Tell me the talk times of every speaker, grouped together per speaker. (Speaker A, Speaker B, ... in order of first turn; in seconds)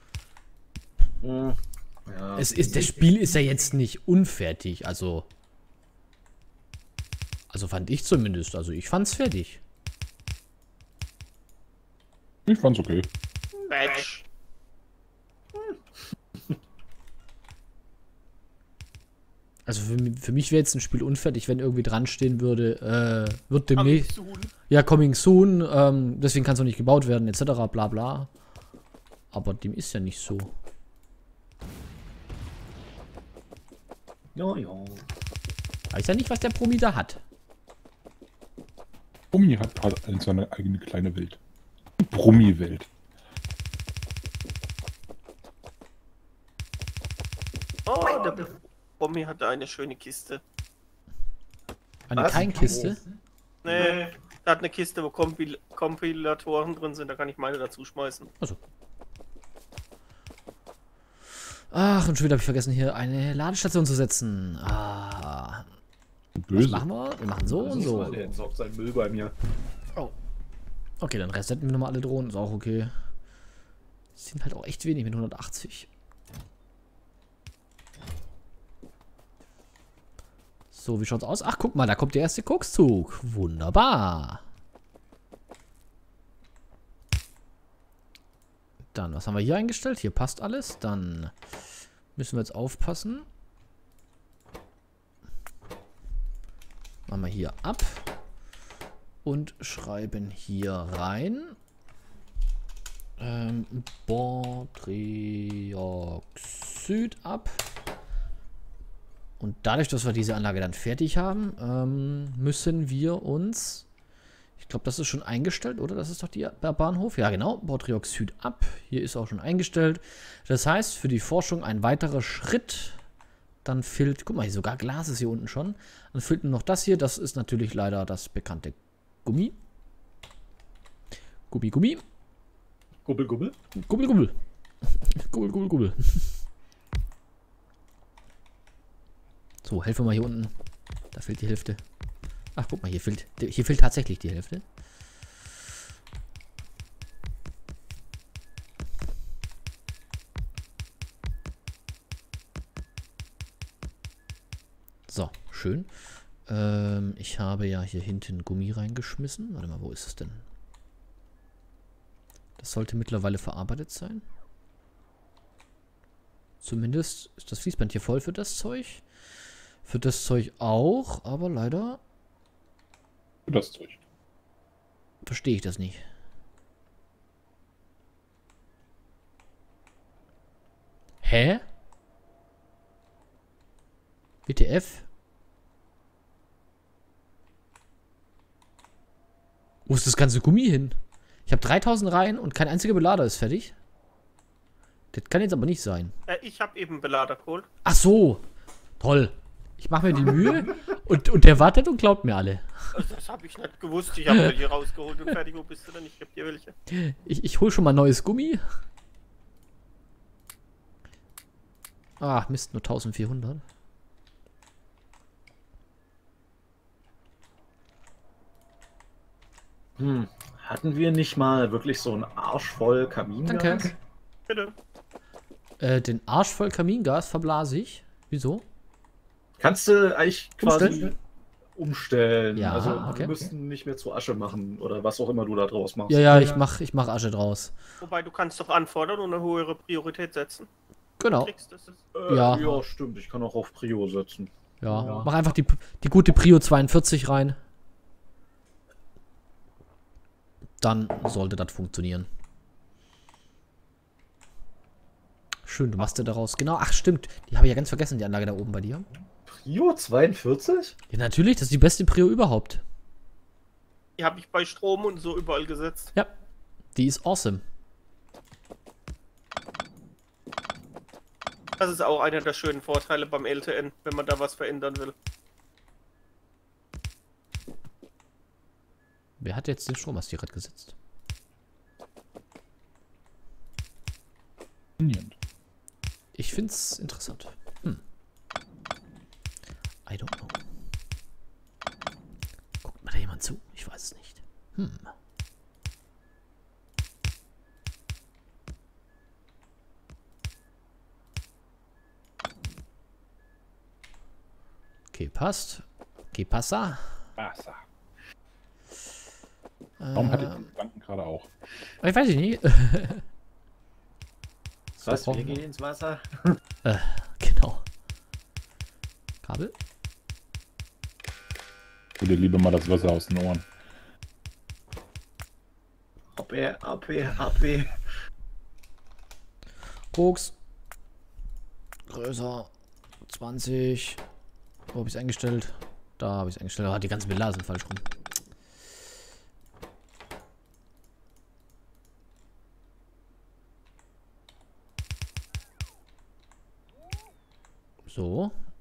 Speaker A: 1.2-2.9, 34.3-35.0, 52.1-53.0, 53.7-54.1, 67.5-69.3, 133.0-133.6, 220.0-224.0, 229.6-231.2, 231.8-236.6, 242.1-245.3, 259.5-260.9, 315.0-316.6, 326.4-327.9
Speaker B: 2.4-5.3, 7.5-9.6, 19.6-24.1, 24.7-28.3, 29.3-30.5, 35.9-37.2, 52.1-53.0, 61.7-65.7, 66.5-68.2, 71.0-72.9, 74.2-75.9, 80.7-84.4, 88.9-91.3, 92.2-93.3, 97.1-98.1, 99.2-101.6, 103.2-107.6, 109.4-113.8, 114.6-123.0, 123.6-129.6, 131.5-132.0, 133.8-136.4, 139.6-140.5, 141.1-141.8, 142.5-144.6, 155.1-155.9, 156.5-160.4, 162.6-164.2, 166.6-169.0, 169.8-172.0, 175.2-176.0, 181.2-181.6, 184.4-185.1, 189.8-190.9, 191.5-193.7, 195.1-196.1, 197.8-198.4, 199.0-202.9, 206.9-208.6, 212.2-213.6, 223.4-223.9, 225.8-228.6, 230.6-231.1, 232.5-233.4, 236.1-237.7, 241.2-241.5, 242.3-242.8, 244.8-247.6, 250.8-252.3, 255.6-259.1, 261.1-262.8, 266.9-267.6, 279.4-280.9, 286.3-288.0, 290.1-290.6, 292.8-295.1, 305.1-307.2, 310.0-310.7, 312.0-313.2, 314.9-315.6, 316.8-317.9, 319.4-319.7, 330.1-330.5, 332.1-332.7, 333.2-334.2, 334.9-338.0, 348.0-348.5
Speaker C: 12.5-13.1, 39.3-41.4, 42.0-42.9, 66.4-66.8, 173.5-174.0, 285.0-285.4, 307.4-307.8, 310.1-311.5, 322.2-323.6
Speaker D: 13.7-14.2, 23.7-24.5, 47.9-50.4, 53.6-58.3, 196.3-197.7, 202.9-206.7, 224.5-224.7, 238.0-240.7, 241.4-241.9, 264.2-266.1, 271.8-275.1